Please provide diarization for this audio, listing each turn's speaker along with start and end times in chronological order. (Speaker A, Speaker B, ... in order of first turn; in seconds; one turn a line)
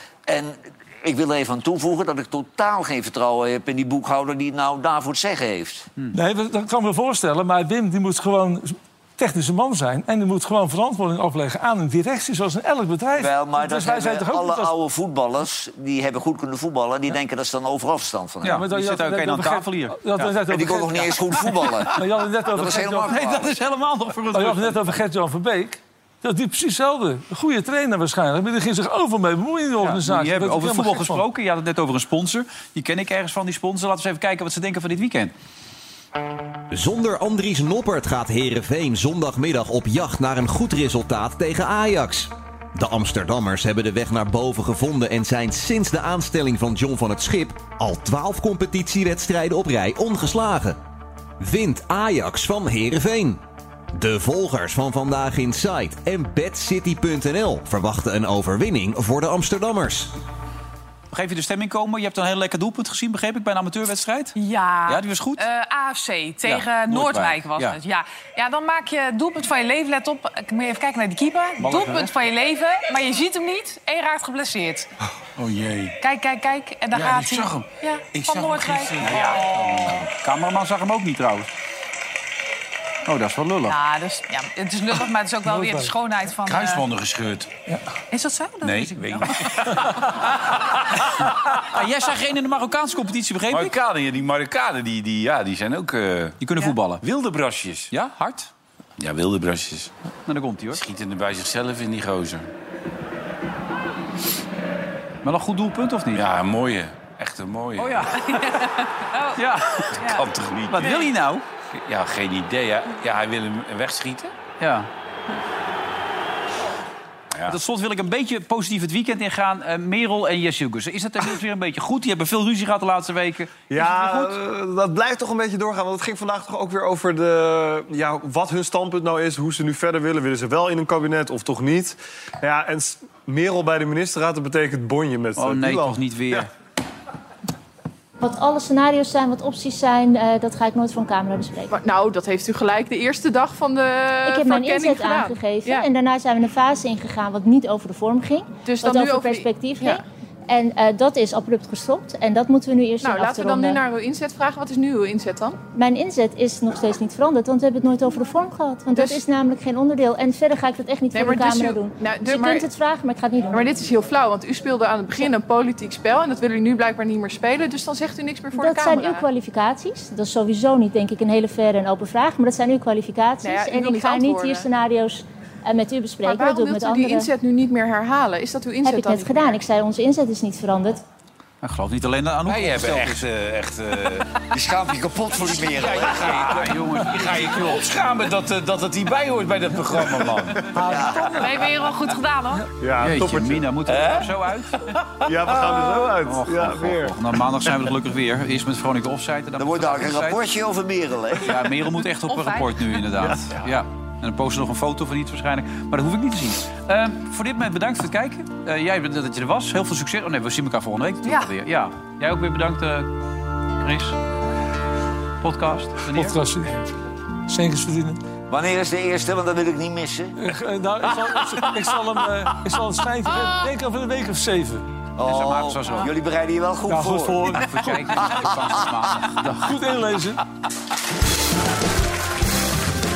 Speaker A: 0.3-5.9
Speaker B: 6.1-14.7
Speaker A: 13.2-18.6
Speaker C: 18.4-20.4
Speaker B: 18.4-21.3
Speaker A: 20.5-22.0
Speaker C: 21.3-22.0
Speaker B: 21.9-23.2
Speaker A: 22.5-23.5
Speaker C: 22.9-24.8
Speaker B: 24.3-31.2
Speaker C: 29.8-35.3
Speaker D: 36.7-50.8
Speaker D: 51.4-53.4
Speaker D: 53.9-60.1
Speaker C: 61.1-64.4
Speaker E: 64.4-74.9
Speaker C: 64.9-65.4
Speaker C: 66.5-67.8
Speaker C: 71.6-72.1
Speaker F: 75.4-76.0
Speaker E: 76.0-79.9
Speaker F: 76.9-80.0
Speaker C: 79.0-81.5
Speaker C: 83.1-83.8
Speaker E: 83.7-86.8
Speaker B: 85.5-85.9
Speaker F: 86.5-87.5
Speaker E: 88.1-89.8
Speaker F: 88.6-91.3
Speaker C: 91.7-93.7
Speaker F: 93.5-96.4
Speaker C: 96.4-97.0
Speaker F: 97.0-97.9
Speaker C: 97.9-98.5
Speaker F: 99.0-99.9
Speaker C: 100.3-100.8
Speaker F: 100.7-102.5
Speaker C: 105.2-106.2
Speaker F: 106.1-108.4
Speaker E: 107.8-110.3
Speaker C: 109.3-109.9
Speaker F: 110.0-111.0
Speaker C: 110.7-111.4
Speaker E: 110.8-111.1
Speaker F: 111.7-114.3
Speaker C: 114.6-114.9
Speaker C: 117.5-124.4
Speaker G: 123.7-136.5
Speaker C: 135.4-136.5
Speaker H: 138.2-141.7
Speaker I: 141.7-145.9
Speaker H: 144.2-153.8
Speaker I: 148.7-150.0
Speaker I: 153.0-155.6
Speaker H: 155.8-163.7
Speaker I: 158.9-159.2
Speaker I: 161.1-162.7
Speaker I: 163.5-169.3
Speaker H: 168.5-177.3
Speaker I: 173.4-174.7
Speaker I: 176.2-179.6
Speaker H: 178.8-181.0
Speaker C: 181.6-183.2
Speaker F: 182.5-184.3
Speaker A: 184.5-186.7
Speaker F: 185.3-190.7
Speaker C: 186.5-187.7
Speaker B: 190.8-191.7
Speaker A: 190.9-191.4
Speaker I: 191.3-192.6
Speaker G: 192.8-194.3
Speaker C: 193.0-194.8
Speaker G: 195.2-197.2
Speaker C: 196.1-200.4
Speaker A: 199.6-201.6
Speaker C: 201.4-213.1
Speaker E: 202.3-203.0
Speaker E: 211.2-211.5
Speaker C: 213.8-214.2
Speaker C: 215.4-216.4
Speaker B: 216.1-216.8
Speaker B: 217.5-218.2
Speaker A: 218.5-220.3
Speaker B: 220.4-224.8
Speaker A: 225.2-227.7
Speaker C: 225.2-226.1
Speaker B: 226.9-228.2
Speaker C: 227.5-229.7
Speaker A: 228.2-228.7
Speaker B: 229.4-230.4